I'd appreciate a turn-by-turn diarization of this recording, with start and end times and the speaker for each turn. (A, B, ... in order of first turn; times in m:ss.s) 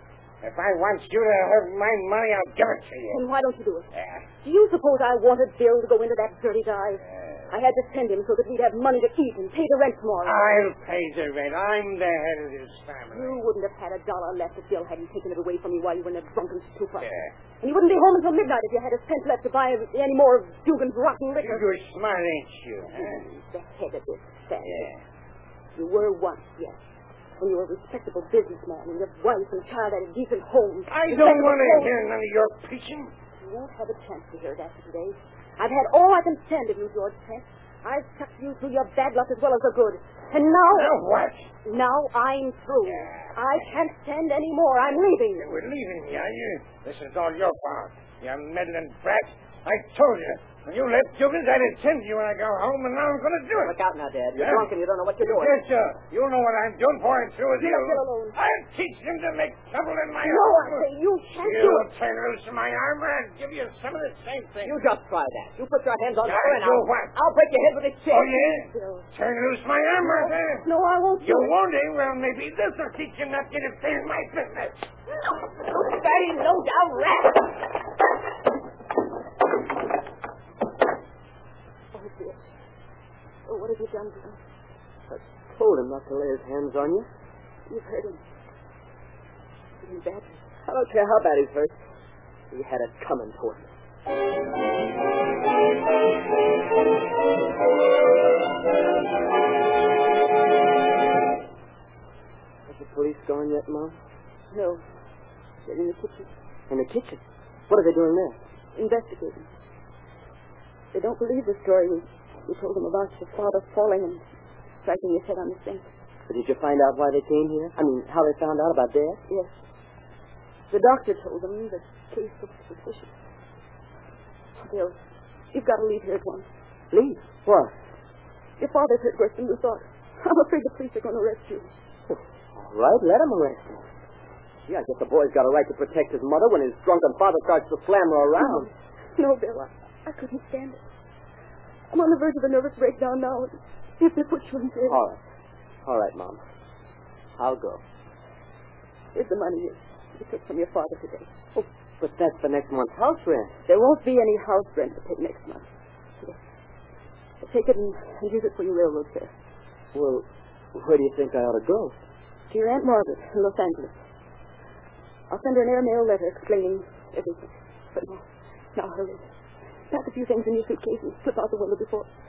0:00.4-0:03.2 A
0:03.1-0:03.9 B
0:03.9-0:04.2 A
0:04.4-0:10.5 B
0:10.2-0:13.4 A
0:13.1-0:21.7 B
0:17.0-0:17.3 A
0:21.4-0:23.2 A
0:22.9-0:24.9 B
0:24.6-0:25.0 A
0:25.7-0:26.8 B
0:27.4-0:31.9 B
0:30.9-0:33.1 A
0:33.4-0:40.9 B
0:40.7-0:41.5 A
0:41.6-0:45.5 B
0:42.8-0:43.6 A
0:45.4-0:53.8 A
0:53.6-0:55.6 C
0:54.3-1:00.8 A
0:57.6-0:58.4 B
1:00.2-1:01.9 B
1:01.4-1:04.8 A
1:04.6-1:08.4 C
1:06.2-1:07.1 A
1:08.1-1:10.7 A
1:08.5-1:09.1 B
1:10.0-1:11.6 B
1:11.2-1:14.9 A
1:15.7-1:17.3 B
1:21.9-1:22.4 B
1:23.5-1:24.4 B
1:25.1-1:27.1 C
1:27.7-1:28.2 B
1:29.8-1:30.4 B
1:30.6-1:31.7 C
1:32.5-1:33.7 C
1:42.7-1:44.0 C
1:44.5-1:44.8 B
1:45.6-1:46.3 B
1:46.7-1:48.4 C
1:48.8-1:49.5 B
1:50.9-1:54.2 B
1:54.8-1:55.8 B
1:56.3-1:59.2 C
2:00.7-2:03.1 B
2:04.6-2:05.0 B
2:05.5-2:06.4 B
2:06.9-2:07.7 C
2:08.6-2:11.7 B
2:12.1-2:13.8 C
2:14.6-2:18.7 C
2:18.4-2:20.8 B
2:21.9-2:25.0 B
2:24.8-2:25.2 C
2:25.8-2:26.4 C
2:27.4-2:27.8 C
2:29.1-2:31.6 B
2:32.0-2:33.5 C
2:33.7-2:35.6 B
2:37.4-2:39.3 B
2:39.9-2:42.0 C
2:42.5-2:43.9 B
2:45.3-2:49.2 B
2:49.9-2:52.1 B